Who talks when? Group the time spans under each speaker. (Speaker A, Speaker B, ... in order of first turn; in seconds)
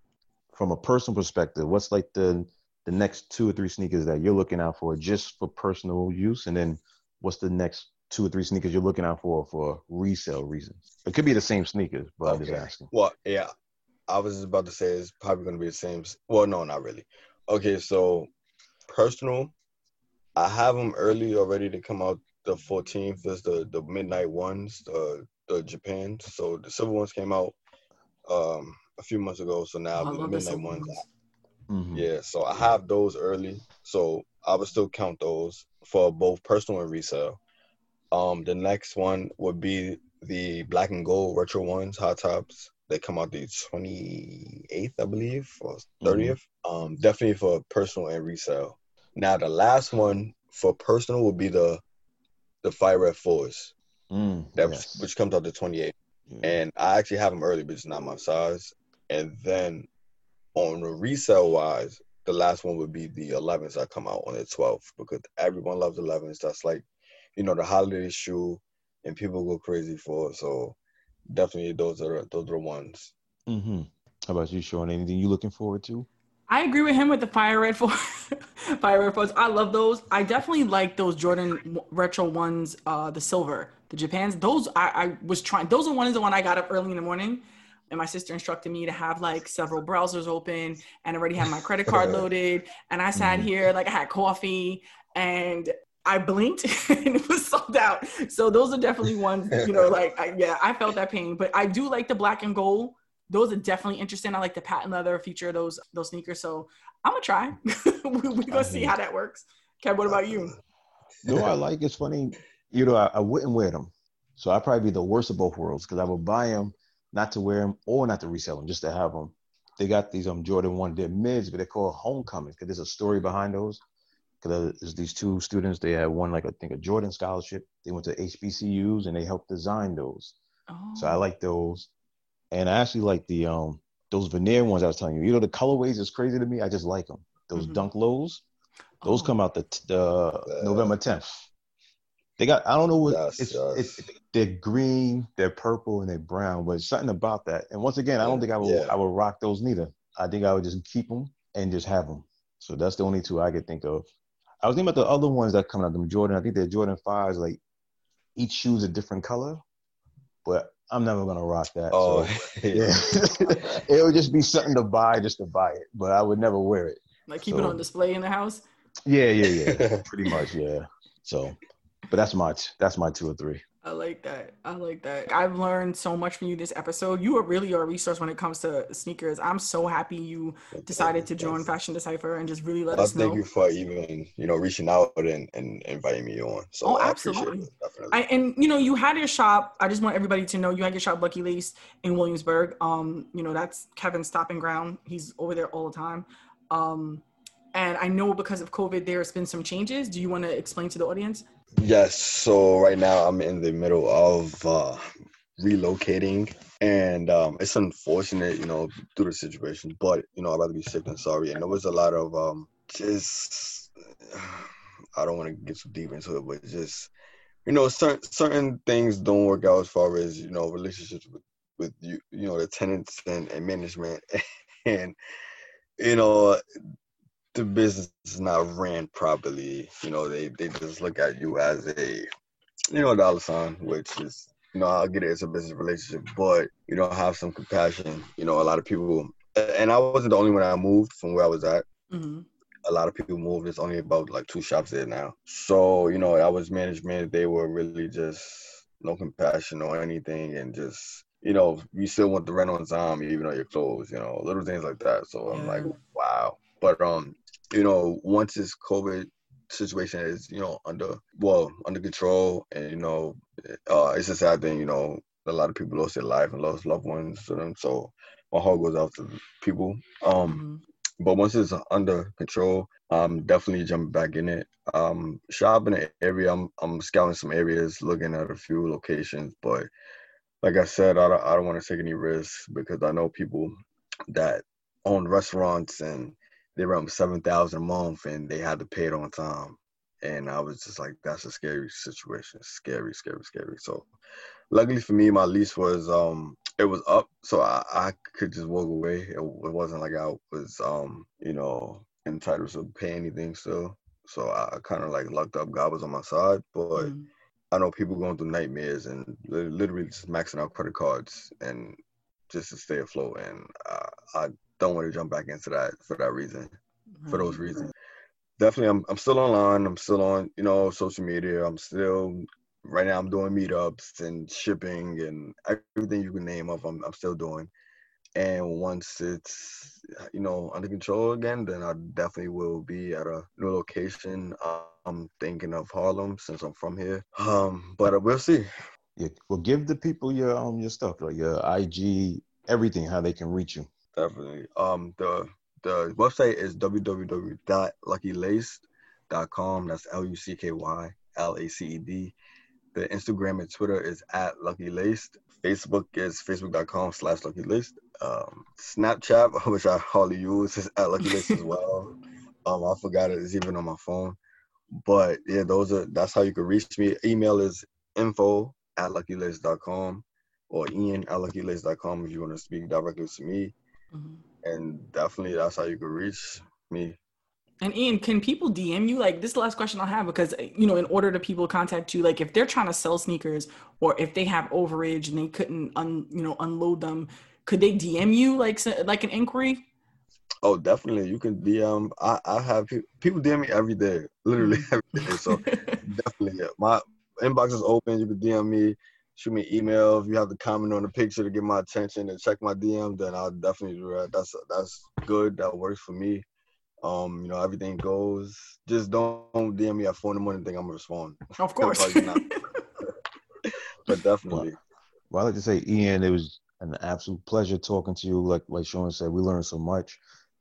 Speaker A: 0.5-12.9, 31.7-32.1, 46.0-46.4, 54.1-55.1, 56.3-56.6, 73.5-76.1, 93.2-93.5, 108.5-109.0, 111.2-123.8, 124.4-130.3, 130.9-131.9, 132.5-138.4, 139.0-141.5, 142.4-154.1, 154.6-157.6, 158.3-159.6, 160.4-167.8, 169.1-171.6, 172.1-173.6, 339.1-343.9, 415.3-420.2
Speaker B: 12.2-13.5, 14.1-18.3, 18.9-19.5, 20.4-27.6, 28.2-31.0, 31.9-37.4, 38.1-51.8, 52.6-53.7, 54.6-59.9, 60.5-66.8, 67.3-70.8, 71.3-73.1, 91.9-92.2, 99.6-99.9, 110.1-110.6, 111.2-111.5, 140.5-140.9, 143.0-144.1, 148.2-148.9, 161.9-163.0, 169.5-170.0, 180.7-181.7, 182.9-188.2, 201.8-205.0, 205.6-217.1, 217.6-224.3, 224.8-225.1, 226.0-226.6, 227.5-232.3, 232.9-241.8, 242.8-270.6, 271.2-279.9, 280.6-283.8, 284.3-294.1, 294.7-307.1, 307.7-312.0, 312.5-316.7, 317.3-317.9, 318.6-327.7, 328.4-338.7, 344.1-352.3, 352.9-362.1, 362.6-364.4, 365.0-373.7, 374.6-377.2, 390.6-406.4, 407.0-412.4, 413.7-414.8
Speaker C: 29.9-31.1, 76.5-110.5, 130.7-131.2, 137.6-137.8, 139.0-139.3, 167.3-168.6, 173.8-183.4, 186.8-201.4, 242.1-242.5, 255.5-255.9, 270.4-270.8, 306.9-307.3, 317.2-317.6, 361.2-361.6, 374.1-374.4, 377.8-389.9, 394.6-396.0, 411.6-412.6